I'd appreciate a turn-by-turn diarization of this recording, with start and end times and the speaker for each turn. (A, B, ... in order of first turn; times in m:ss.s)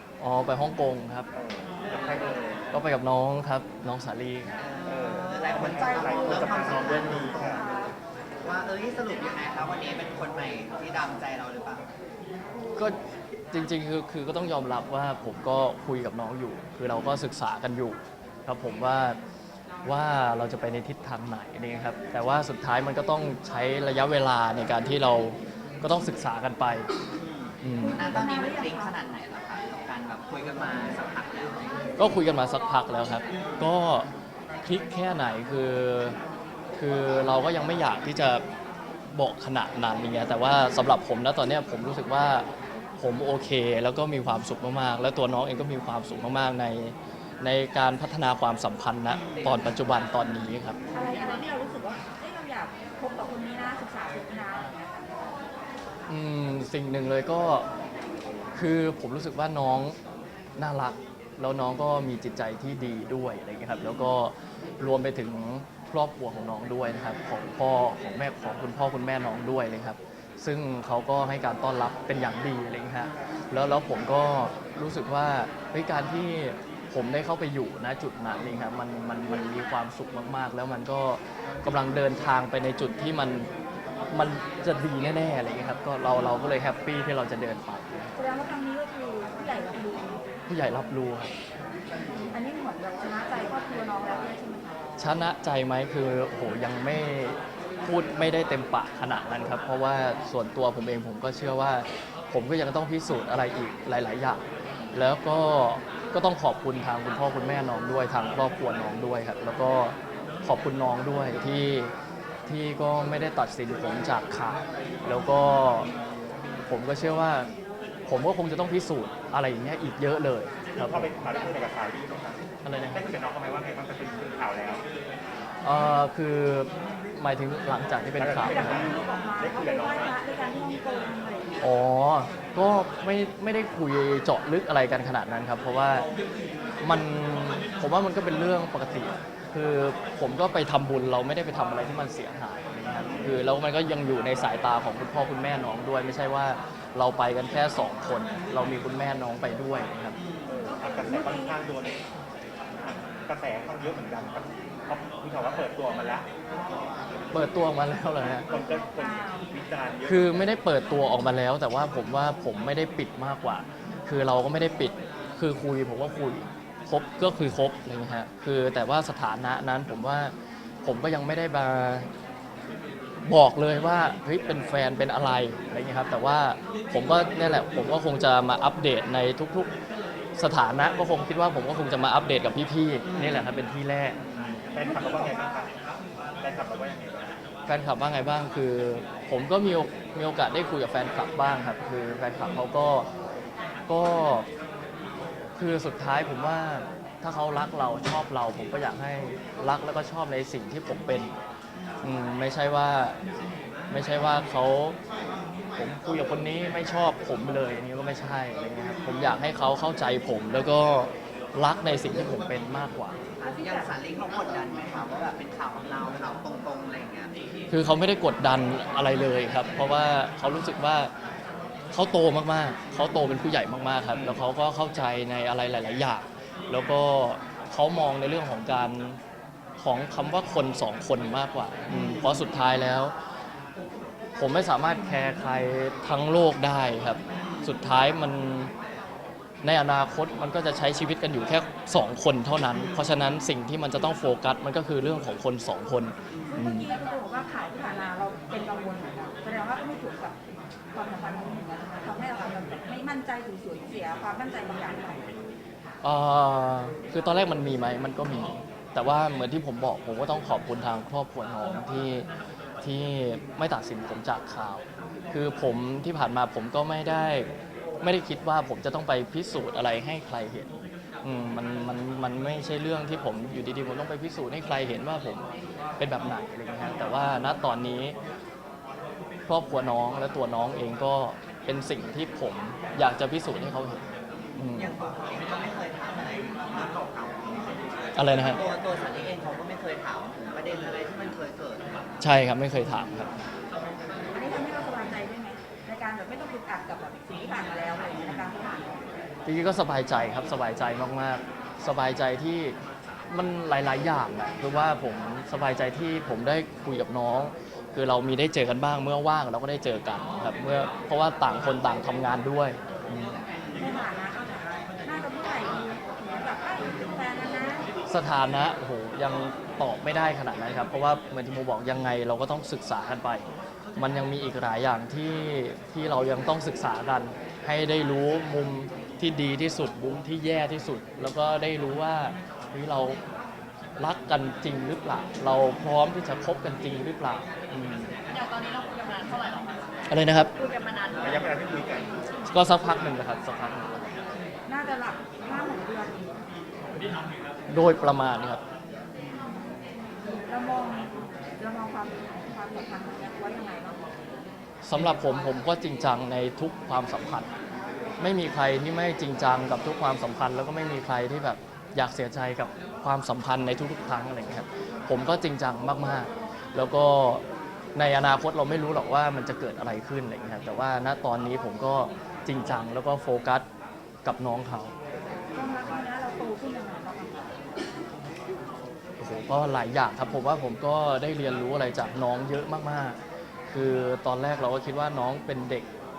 0:00.2-0:01.3 A
0:01.3-0:02.6 B
0:02.7-0:04.5 A
0:04.5-0:07.8 C
0:04.8-0:07.7 B
0:05.6-0:07.9 D
0:08.4-0:11.8 C
0:13.5-0:19.2 A
0:19.8-0:26.9 A
0:27.3-0:31.9 C
0:27.6-0:28.2 A
0:27.8-0:29.0 D
0:32.0-0:34.1 A
0:34.6-0:36.2 A
0:36.8-0:38.4 A
0:39.1-0:42.4 A
0:43.0-0:50.8 A
0:50.9-0:54.8 D
0:56.1-0:57.7 A
0:58.5-1:00.0 A
1:00.6-1:23.5 A
1:24.1-1:28.1 A
1:28.2-1:30.2 D
1:30.5-1:31.3 A
1:32.3-1:35.1 D
1:35.0-1:51.9 A
1:52.5-1:55.9 A
1:56.7-1:57.5 A
1:58.1-2:01.1 A
2:00.7-2:02.4 B
2:02.6-2:03.1 A
2:02.9-2:04.8 B
2:05.6-2:08.8 A
2:08.1-2:10.2 B
2:08.4-2:11.5 D
2:11.6-2:16.1 A
2:16.8-2:30.2 A
2:23.0-2:23.4 B
2:30.5-2:32.0 B
2:30.6-2:31.6 D
2:32.8-2:36.2 B
2:37.3-2:38.4 A
2:38.5-2:40.4 B
2:38.9-2:39.5 D
2:40.0-2:52.1 A
2:53.2-2:59.7 A
3:00.4-3:04.2 A
3:04.7-3:05.8 B
3:04.8-3:05.7 D
3:06.4-3:07.4 B
3:07.7-3:13.1 A
3:13.9-3:14.5 A
3:15.5-3:21.3 A
3:22.0-3:23.2 A
3:23.9-3:25.0 A
3:25.8-3:33.2 A
3:33.4-3:37.3 C
3:33.4-3:33.9 D
3:37.7-3:41.1 A
3:41.9-3:49.2 A
3:49.8-3:53.1 A
3:54.4-3:58.7 A
3:59.6-4:06.9 A
4:06.5-4:10.4 D
4:10.9-4:15.3 D
4:16.0-4:22.3 A
4:22.8-4:27.5 A
4:28.0-4:30.7 A
4:31.2-4:35.5 A
4:36.0-4:38.2 A
4:39.5-4:44.0 A
4:44.6-4:44.9 A
4:44.7-4:51.9 C
4:48.1-4:48.6 A
4:52.2-4:53.3 A
4:54.3-4:59.0 D
4:59.4-5:02.8 A
5:03.3-5:13.4 A
5:13.8-5:17.9 D
5:18.1-5:23.4 A
5:24.0-5:33.2 A
5:34.0-5:38.1 A
5:38.3-5:39.8 E
5:40.1-5:40.5 A
5:40.6-5:41.5 E
5:41.2-5:42.1 B
5:42.5-5:44.1 A
5:44.7-5:46.4 D
5:47.7-5:48.6 A
5:50.2-5:54.0 D
5:54.8-5:57.5 A
5:58.2-6:07.4 A
6:07.9-6:13.6 A
6:14.2-6:14.9 A
6:15.5-6:17.6 D
6:19.2-6:23.2 A
6:23.7-6:25.9 A